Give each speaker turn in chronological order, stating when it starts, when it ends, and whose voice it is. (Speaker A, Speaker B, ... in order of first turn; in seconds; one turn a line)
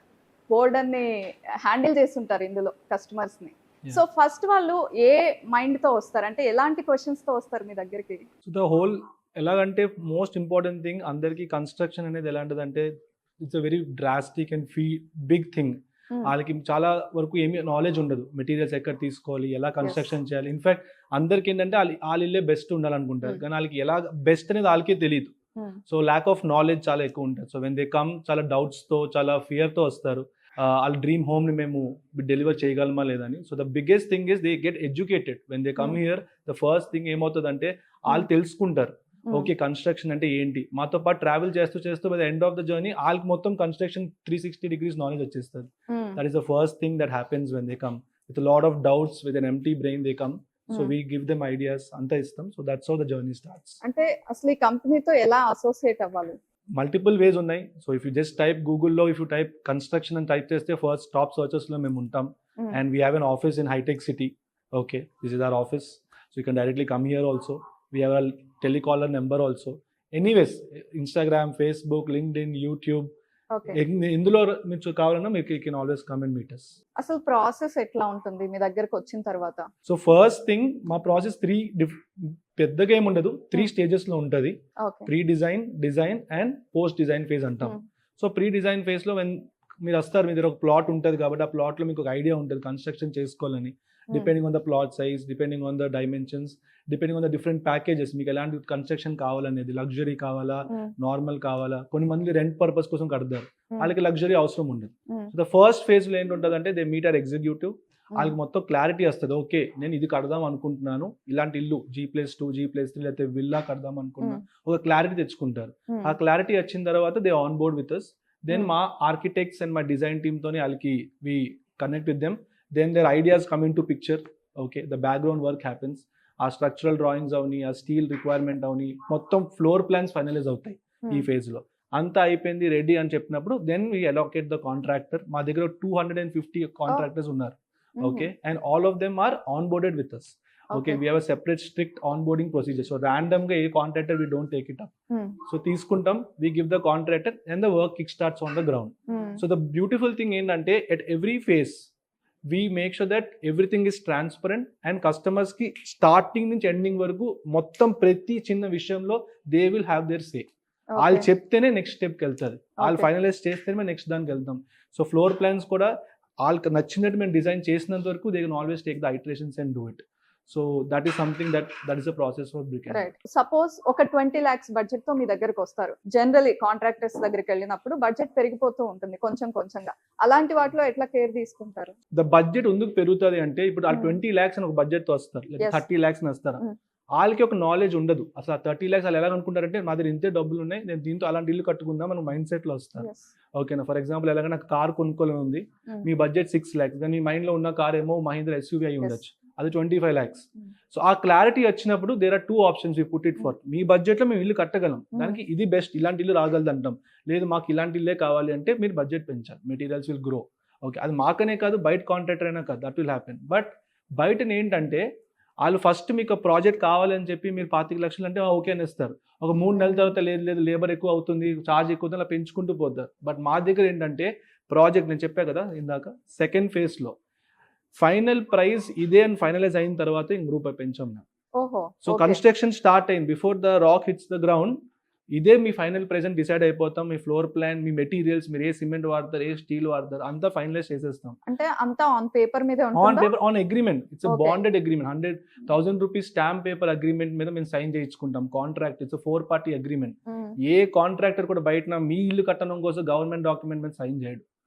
Speaker A: 0.5-1.1
Speaker A: 1.6-8.2
Speaker B: 8.4-12.9
Speaker B: 13.4-25.3
Speaker B: 25.9-53.8
Speaker A: 45.9-46.2
Speaker A: 53.8-56.4
Speaker B: 56.8-73.1
Speaker A: 73.5-73.8
Speaker B: 73.7-76.7
Speaker A: 77.0-79.7
Speaker B: 79.8-144.9
Speaker A: 84.8-85.1
Speaker A: 115.9-116.2
Speaker A: 138.0-138.3
Speaker A: 140.7-141.0
Speaker A: 145.1-145.4
Speaker B: 145.4-151.9
Speaker A: 149.1-149.4
Speaker B: 152.5-173.1
Speaker A: 160.9-161.3
Speaker A: 162.8-163.1
Speaker A: 172.9-181.9
Speaker B: 182.1-186.6
Speaker A: 183.9-184.2
Speaker B: 187.2-215.0
Speaker A: 193.0-193.3
Speaker A: 205.2-205.4
Speaker B: 215.6-227.1
Speaker A: 219.7-220.1
Speaker B: 227.9-231.2
Speaker A: 231.6-232.4
Speaker B: 232.0-234.8
Speaker B: 235.3-241.4
Speaker A: 241.5-243.3
Speaker B: 242.9-254.4
Speaker A: 244.2-244.6
Speaker A: 250.3-250.6